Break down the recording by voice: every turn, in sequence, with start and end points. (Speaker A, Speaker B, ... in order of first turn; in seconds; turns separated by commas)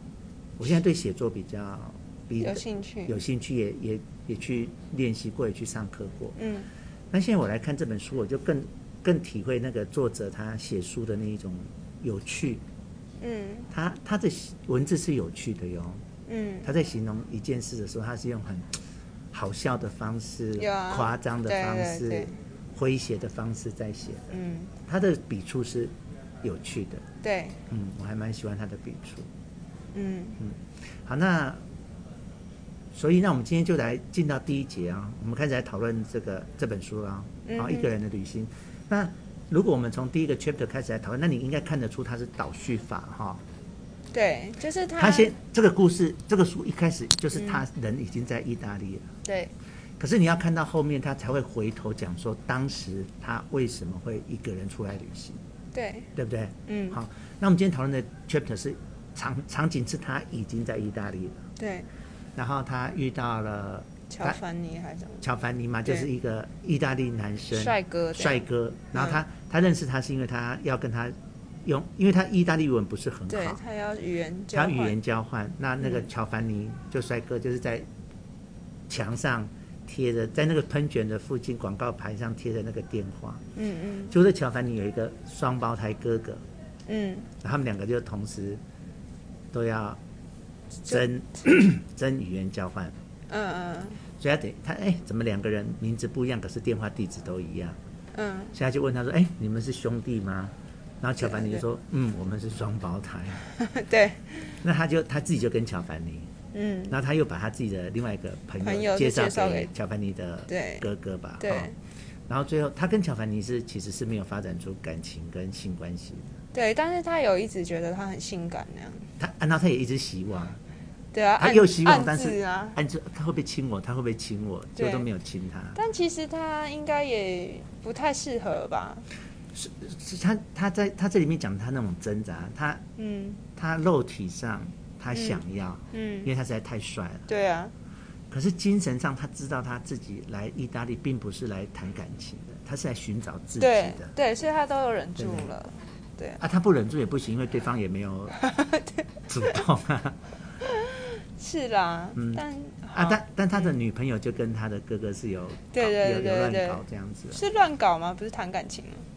Speaker A: 0.6-6.4, Speaker B: 2.4-3.2, Speaker B: 6.4-6.7, Speaker A: 7.1-12.6, Speaker B: 13.2-13.7, Speaker A: 13.7-16.0, Speaker B: 16.3-16.7, Speaker A: 16.6-18.8, Speaker A: 19.3-27.1, Speaker B: 20.6-22.4, Speaker B: 24.3-24.7, Speaker B: 27.2-27.6, Speaker A: 27.7-29.3, Speaker B: 29.9-30.4, Speaker A: 30.4-31.6, Speaker A: 32.9-43.4, Speaker B: 37.5-37.9, Speaker B: 44.1-45.3, Speaker A: 45.0-49.1, Speaker B: 47.3-47.6, Speaker B: 49.2-49.5, Speaker A: 50.0-55.4, Speaker B: 55.7-56.1, Speaker A: 56.1-61.5, Speaker B: 56.7-57.0, Speaker B: 61.6-61.9, Speaker A: 62.4-64.4, Speaker B: 64.1-65.2, Speaker A: 65.2-73.6, Speaker B: 67.5-69.2, Speaker B: 73.3-75.0, Speaker A: 74.5-77.9, Speaker B: 75.8-76.1, Speaker A: 78.9-83.4, Speaker B: 83.5-84.1, Speaker A: 84.1-86.4, Speaker B: 86.9-87.3, Speaker A: 87.4-88.6, Speaker A: 89.5-90.0, Speaker A: 90.8-93.0, Speaker B: 93.3-94.0, Speaker A: 94.2-97.8, Speaker B: 98.1-98.5, Speaker A: 98.5-103.4, Speaker B: 101.2-101.6, Speaker B: 103.6-104.6, Speaker A: 104.6-106.3, Speaker B: 106.5-107.0, Speaker A: 106.9-111.7, Speaker B: 108.6-109.7, Speaker B: 110.5-110.8, Speaker B: 111.4-111.8, Speaker A: 112.3-116.4, Speaker B: 116.5-119.1, Speaker A: 119.2-120.6, Speaker B: 121.1-122.8, Speaker A: 121.4-125.8, Speaker B: 124.8-125.1, Speaker B: 125.8-129.1, Speaker A: 129.5-132.8, Speaker B: 133.0-133.4, Speaker A: 133.6-137.3, Speaker B: 135.1-136.3, Speaker B: 137.3-137.7, Speaker A: 138.3-144.1, Speaker B: 143.6-146.4, Speaker A: 145.2-145.5, Speaker A: 146.4-148.4, Speaker B: 148.3-149.6, Speaker A: 149.3-150.2, Speaker B: 150.6-153.7, Speaker A: 152.2-157.4, Speaker B: 155.7-159.1